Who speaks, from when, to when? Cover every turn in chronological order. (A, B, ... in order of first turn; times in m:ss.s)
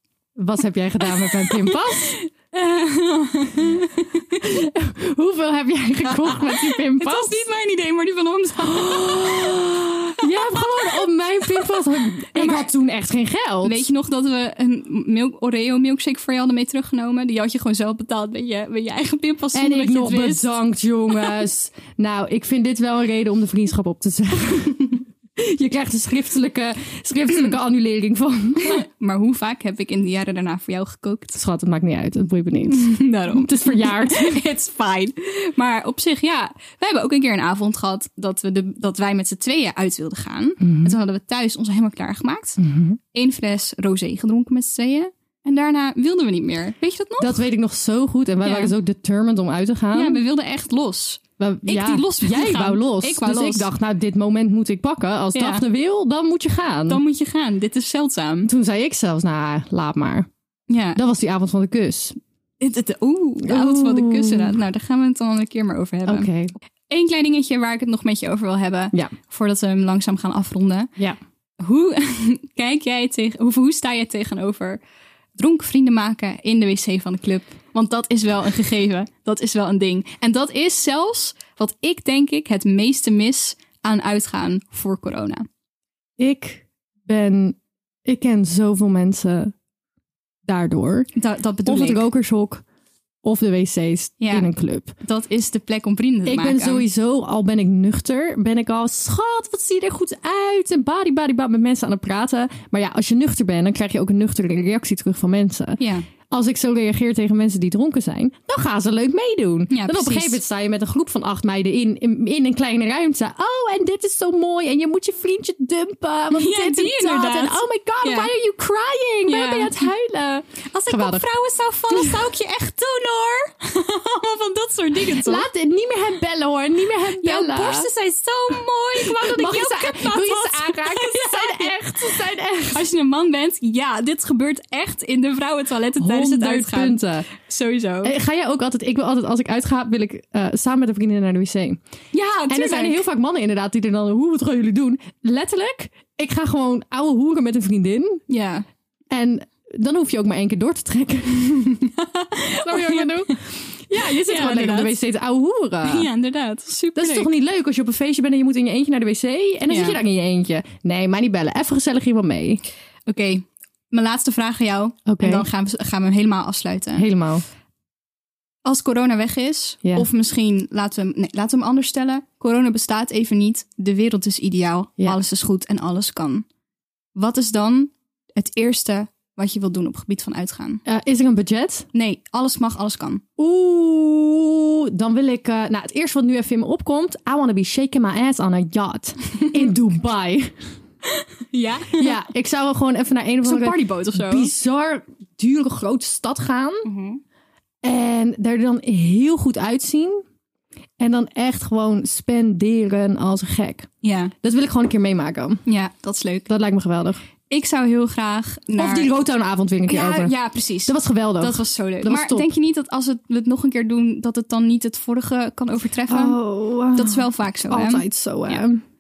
0:00.4-0:02.2 A
0:01.2-0:04.4 B
0:04.4-0:07.4 A
0:06.1-0:12.7 B
0:08.6-0:13.9 A
0:13.6-0:20.5 B
0:19.5-0:28.8 A
0:28.6-0:31.4 B
0:31.4-0:34.4 A
0:32.7-0:42.6 B
0:40.6-0:41.0 A
0:42.6-0:43.0 A
0:43.1-0:47.5 B
0:47.2-0:50.2 A
0:48.4-0:48.8 B
0:49.9-0:53.7 B
0:51.4-0:57.0 A
0:55.3-0:55.6 B
0:56.9-0:58.5 B
0:58.5-1:00.3 A
1:00.7-1:01.0 B
1:01.0-1:02.2 A
1:02.6-1:06.3 B
1:03.4-1:04.6 A
1:06.1-1:06.5 A
1:06.9-1:10.9 B
1:11.6-1:14.8 B
1:15.4-1:25.5 B
1:26.2-1:29.5 A
1:30.4-1:31.1 A
1:31.2-1:32.1 B
1:31.7-1:32.6 A
1:33.2-1:34.9 A
1:34.2-1:34.5 B
1:35.0-1:36.8 B
1:36.2-2:01.3 A
1:45.8-1:46.1 B
1:49.7-1:50.4 B
1:56.3-1:58.3 B
1:59.3-1:59.9 B
2:00.7-2:05.5 B
2:01.9-2:02.3 A
2:05.0-2:07.9 A
2:07.1-2:18.1 B
2:09.0-2:12.9 A
2:16.0-2:17.3 A
2:18.0-2:21.8 A
2:22.1-2:23.0 B
2:22.5-2:28.2 A
2:28.3-2:28.6 B
2:29.1-2:31.8 A
2:31.7-2:35.0 B
2:32.6-2:36.1 A
2:35.8-2:37.3 B
2:37.0-2:42.6 A
2:39.7-2:40.0 B
2:43.1-2:47.1 B
2:45.1-2:45.5 A
2:47.0-2:47.4 A
2:48.6-2:56.4 B
2:57.2-3:00.8 B
3:00.9-3:01.9 A
3:01.9-3:03.2 B
3:03.4-3:10.5 A
3:11.2-3:12.2 B
3:12.0-3:16.9 A
3:13.4-3:14.5 B
3:16.8-3:17.2 B
3:17.8-3:20.2 A
3:21.0-3:23.9 A
3:24.0-3:24.3 B
3:24.4-3:25.6 A
3:25.7-3:26.5 B
3:26.5-3:27.2 A
3:27.5-3:29.1 B
3:28.8-3:30.3 A
3:29.9-3:36.4 B
3:30.8-3:32.5 A
3:36.1-3:38.8 A
3:36.9-3:38.6 B